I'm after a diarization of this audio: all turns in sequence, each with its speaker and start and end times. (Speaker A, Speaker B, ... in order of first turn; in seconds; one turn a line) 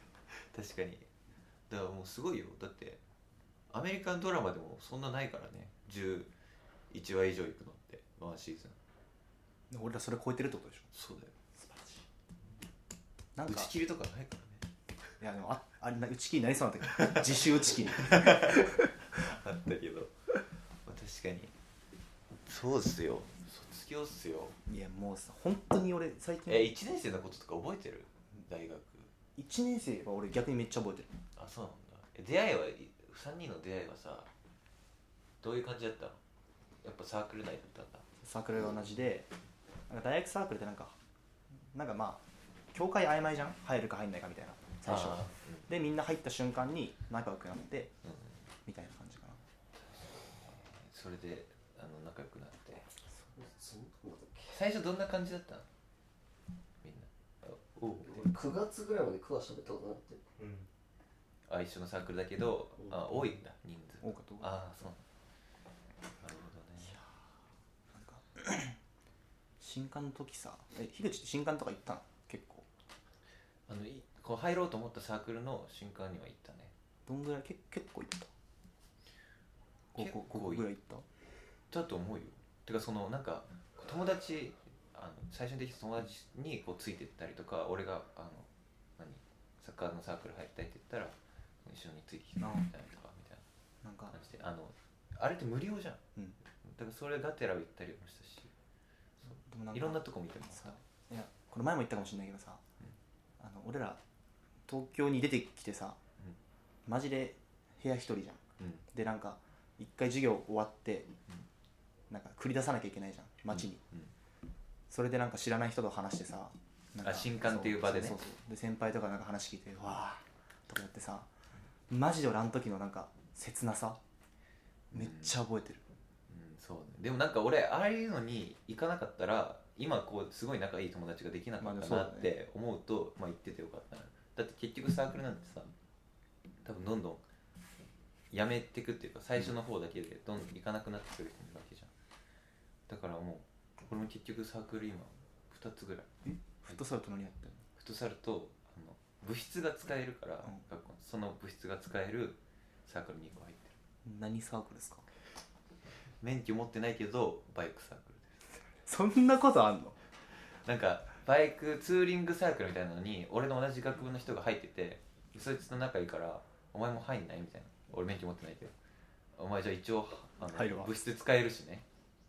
Speaker A: 0.3-1.1
Speaker A: 1.7-3.0
Speaker A: 3.7-6.3
Speaker A: 6.9-8.8
Speaker B: 9.7-10.9
Speaker A: 10.9-11.3
Speaker B: 11.6-12.1
Speaker B: 13.4-13.7
Speaker A: 13.5-14.7
Speaker B: 15.2-18.8
Speaker A: 17.0-20.1
Speaker A: 20.9-21.5
Speaker A: 22.5-24.6
Speaker B: 24.7-26.7
Speaker A: 26.5-29.1
Speaker B: 29.4-31.1
Speaker A: 31.4-34.3
Speaker A: 35.4-36.2
Speaker A: 36.8-38.0
Speaker B: 38.2-39.3
Speaker B: 39.9-41.0
Speaker B: 41.7-47.9
Speaker A: 44.9-45.7
Speaker A: 48.0-48.3
Speaker B: 48.7-49.4
Speaker A: 49.8-52.9
Speaker C: 53.4-54.6
Speaker A: 54.5-55.7
Speaker A: 56.8-58.3
Speaker C: 58.0-60.7
Speaker A: 61.5-65.0
Speaker B: 64.0-64.5
Speaker A: 66.2-67.0
Speaker B: 67.9-68.8
Speaker B: 69.6-72.7
Speaker A: 73.7-76.7
Speaker B: 77.1-78.3
Speaker B: 79.9-81.1
Speaker A: 80.0-80.7
Speaker A: 81.7-93.5
Speaker B: 92.4-92.7
Speaker B: 93.8-94.2
Speaker A: 94.1-96.0
Speaker A: 96.6-98.5
Speaker B: 99.2-102.6
Speaker A: 99.7-100.8
Speaker B: 103.4-104.0
Speaker B: 104.7-106.0
Speaker B: 106.9-111.1
Speaker B: 112.1-113.8
Speaker A: 113.5-114.1
Speaker B: 114.9-121.3
Speaker A: 117.0-118.2
Speaker B: 121.9-124.0
Speaker A: 124.9-125.4
Speaker B: 124.9-125.8
Speaker A: 126.3-135.7
Speaker B: 131.6-132.3
Speaker A: 136.6-137.2
Speaker A: 138.3-141.9
Speaker A: 142.9-146.1
Speaker B: 146.2-147.7
Speaker A: 147.8-153.8
Speaker B: 154.1-155.1
Speaker A: 156.2-158.4
Speaker B: 158.9-160.0
Speaker A: 160.6-168.7
Speaker A: 169.4-171.9
Speaker B: 170.5-171.0